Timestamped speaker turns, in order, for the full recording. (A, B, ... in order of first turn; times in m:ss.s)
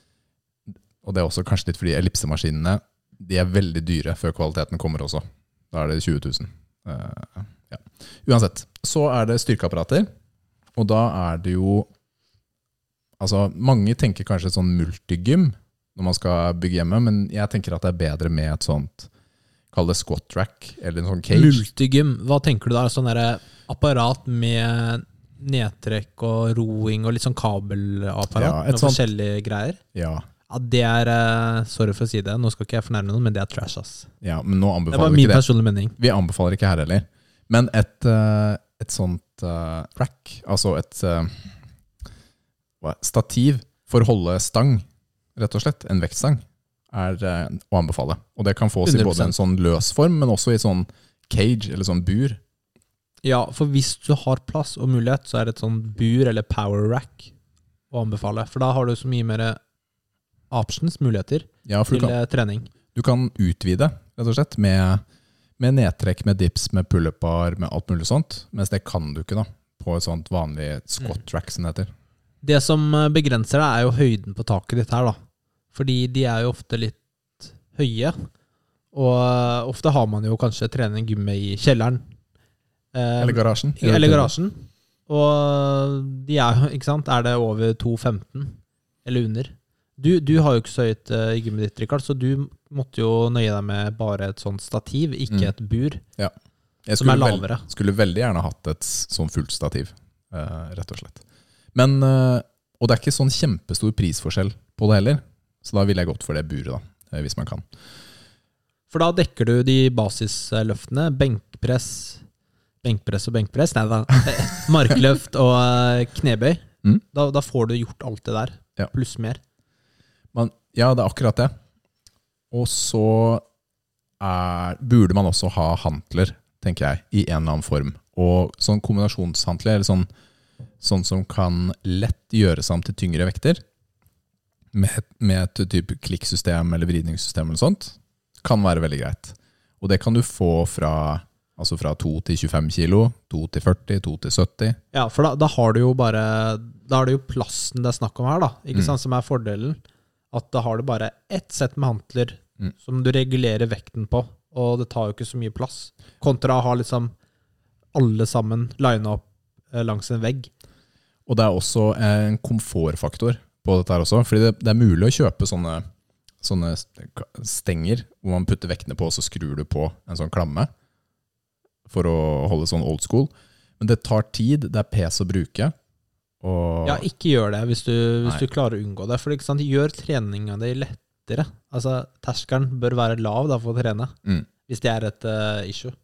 0:01.0-0:10.1 A
0:10.8-0:11.9 A
0:13.2-0:19.1 A
0:19.7-0:21.6 A
0:21.3-0:29.8 B
0:28.3-0:29.1 A
0:29.9-0:30.3 A
0:30.5-0:34.1 B
0:34.2-0:35.5 A
0:34.9-0:36.0 B
0:36.0-0:41.5 A
0:42.8-0:52.4 A
0:48.8-0:49.4 B
0:53.2-0:57.3 B
0:57.9-0:59.6 B
1:00.5-1:02.7 B
1:01.7-1:02.2 A
1:03.0-1:05.0 A
1:05.6-1:11.9 A
1:12.4-1:15.2 B
1:15.7-1:18.3 B
1:18.9-1:22.0 B
1:22.9-1:36.0 B
1:23.2-1:24.3 A
1:36.9-1:41.2 A
1:37.0-1:37.6 B
1:41.7-1:47.6 A
1:48.9-1:52.2 B
1:52.8-1:59.4 B
2:00.3-2:01.5 A
2:02.5-2:03.4 A
2:04.2-2:10.1 A
2:10.8-2:13.6 A
2:14.7-2:24.8 A
2:24.9-2:29.8 B
2:30.3-2:37.1 B
2:37.9-2:40.5 B
2:41.3-2:45.8 A
2:46.4-2:50.7 A
2:51.9-2:55.8 A
2:56.4-2:57.1 A
2:56.8-3:04.2 B
3:04.7-3:06.0 B